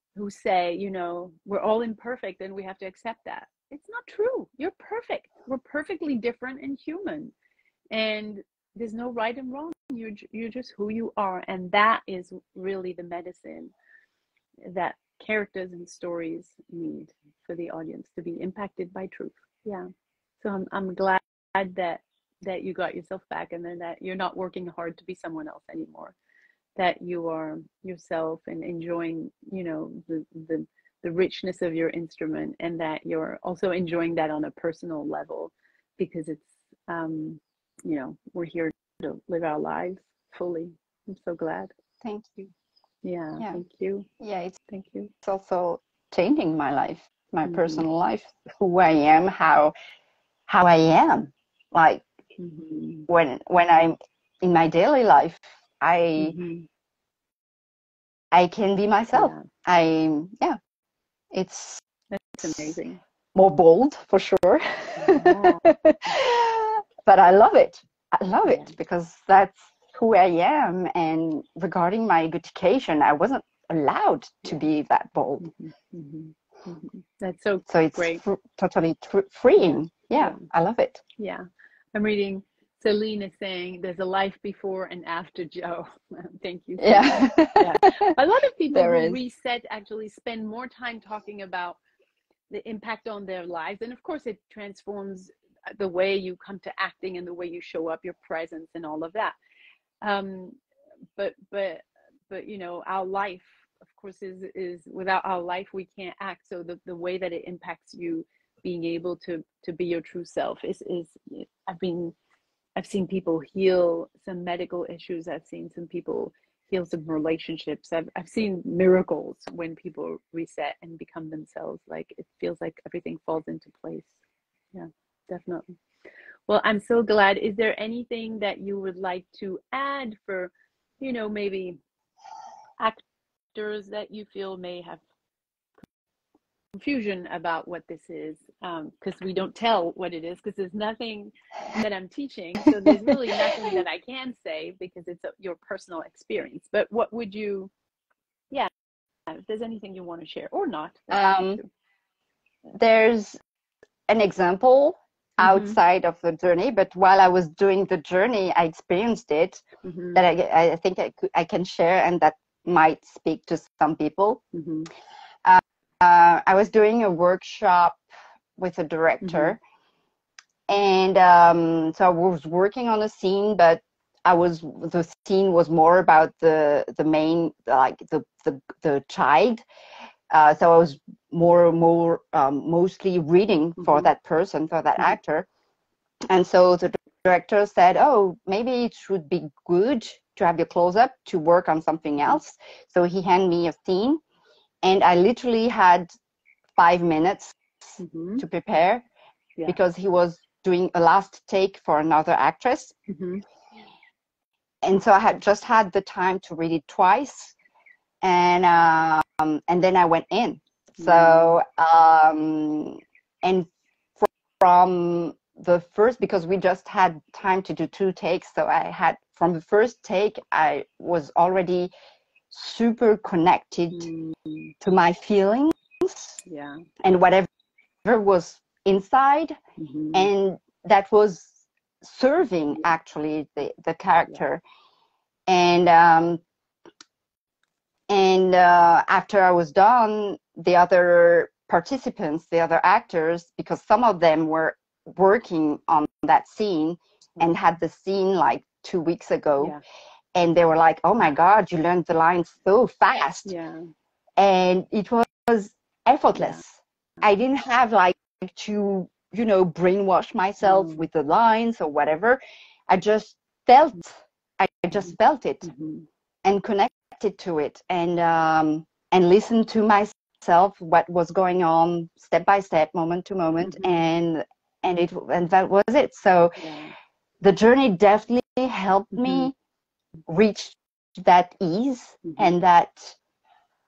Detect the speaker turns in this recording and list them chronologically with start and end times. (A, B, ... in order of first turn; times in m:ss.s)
0:00.2-0:07.3 A
0:07.9-0:13.7 A
0:14.6-0:19.9 A
0:20.4-0:26.2 A
0:26.8-0:41.7 A
0:42.0-0:42.5 B
0:43.0-0:44.1 A
0:44.2-0:44.6 B
0:44.7-0:45.1 A
0:45.2-0:49.7 B
0:47.4-0:47.8 A
0:50.5-0:52.0 B
0:52.4-0:53.1 A
0:53.1-0:56.4 B
0:56.2-0:56.7 A
0:58.3-1:00.6 B
0:59.1-0:59.4 A
1:01.3-1:01.8 B
1:02.1-1:03.0 A
1:02.4-1:02.8 B
1:03.4-1:15.5 B
1:05.0-1:05.6 A
1:08.4-1:08.7 A
1:15.4-1:18.2 A
1:17.7-1:21.0 B
1:19.6-1:20.4 A
1:21.2-1:21.4 A
1:21.9-1:31.8 A
1:26.8-1:28.2 B
1:28.7-1:29.2 B
1:32.5-1:39.4 A
1:40.0-1:40.6 A
1:41.2-1:52.2 A
1:52.8-2:04.1 A
2:04.7-2:05.8 A
2:06.5-2:11.8 A
2:13.6-2:15.0 A
2:16.8-2:27.7 A
2:29.3-2:31.7 A
2:31.1-2:31.6 B
2:32.8-2:33.4 B
2:34.1-2:39.6 B
2:35.4-2:35.8 A
2:39.8-2:40.2 A
2:40.2-2:44.4 B
2:44.5-2:44.9 A
2:45.4-2:48.0 B
2:48.6-2:49.6 B
2:49.2-2:49.6 A
2:50.7-2:59.6 B
3:00.3-3:05.5 B
3:03.8-3:04.1 A
3:06.3-3:14.2 B
3:14.8-3:16.1 B
3:16.8-3:19.1 B
3:18.0-3:18.4 A
3:19.7-3:22.9 B
3:23.1-3:23.4 A
3:24.8-3:27.6 B
3:28.2-3:33.7 B
3:31.0-3:31.6 A
3:34.2-3:41.9 B
3:42.5-3:44.1 B
3:43.9-3:44.7 A
3:44.8-3:46.4 B
3:46.4-3:46.8 A
3:47.0-3:47.5 B
3:48.0-3:49.6 B
3:49.8-3:50.3 A
3:50.1-3:54.6 B
3:55.5-3:56.4 B
3:58.1-4:09.8 B
4:10.4-4:13.5 B
4:13.5-4:13.9 A
4:14.4-4:25.7 B
4:16.4-4:16.6 A
4:20.6-4:21.0 A
4:25.6-4:26.1 A
4:26.4-4:36.6 B
4:33.6-4:33.9 A
4:36.6-4:36.9 A
4:37.4-4:39.6 B
4:39.1-4:39.5 A
4:40.3-4:43.2 B
4:42.2-4:42.5 A